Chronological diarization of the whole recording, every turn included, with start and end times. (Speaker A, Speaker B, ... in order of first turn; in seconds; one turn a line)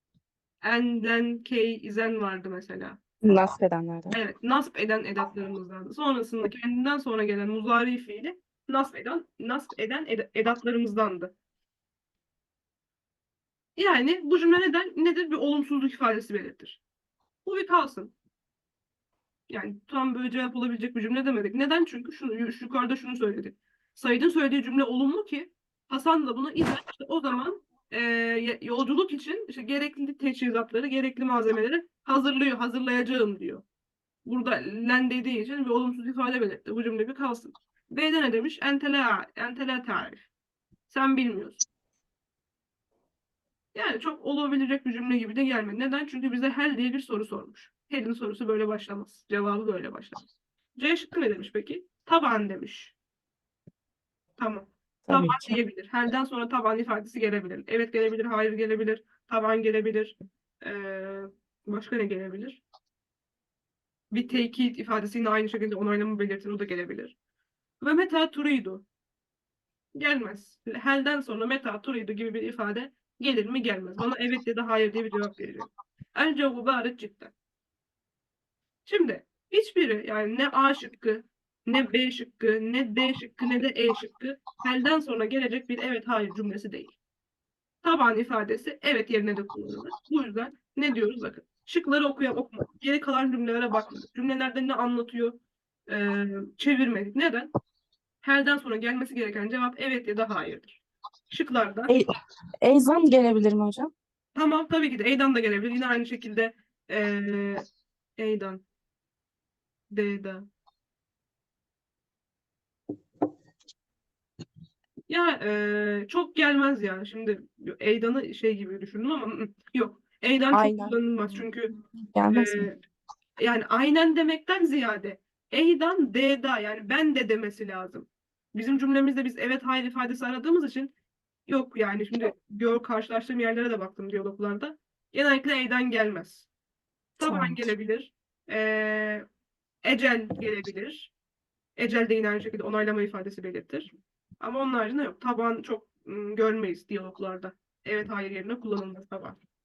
Speaker A: 0.6-3.0
Speaker B: 3.2-4.2
Speaker A: 4.1-11.3
Speaker A: 13.8-16.8
Speaker A: 17.4-18.1
Speaker A: 19.5-33.6
Speaker A: 34.2-40.3
Speaker A: 40.9-41.6
Speaker A: 43.7-50.2
Speaker A: 50.8-53.0
Speaker A: 54.4-62.6
Speaker B: 55.1-55.6
Speaker A: 64.1-67.1
Speaker A: 67.8-68.8
Speaker A: 69.9-77.3
Speaker A: 78.9-87.0
Speaker A: 87.8-97.5
Speaker A: 98.2-102.0
Speaker B: 101.9-103.9
Speaker A: 104.4-107.6
Speaker A: 108.2-108.6
Speaker A: 109.9-110.5
Speaker A: 115.1-121.7
Speaker B: 120.5-121.0
Speaker B: 122.1-122.7
Speaker A: 122.3-122.7
Speaker A: 123.4-130.9
Speaker A: 131.5-136.5
Speaker A: 137.2-139.2
Speaker B: 137.2-137.7
Speaker A: 139.8-141.1
Speaker A: 141.8-149.4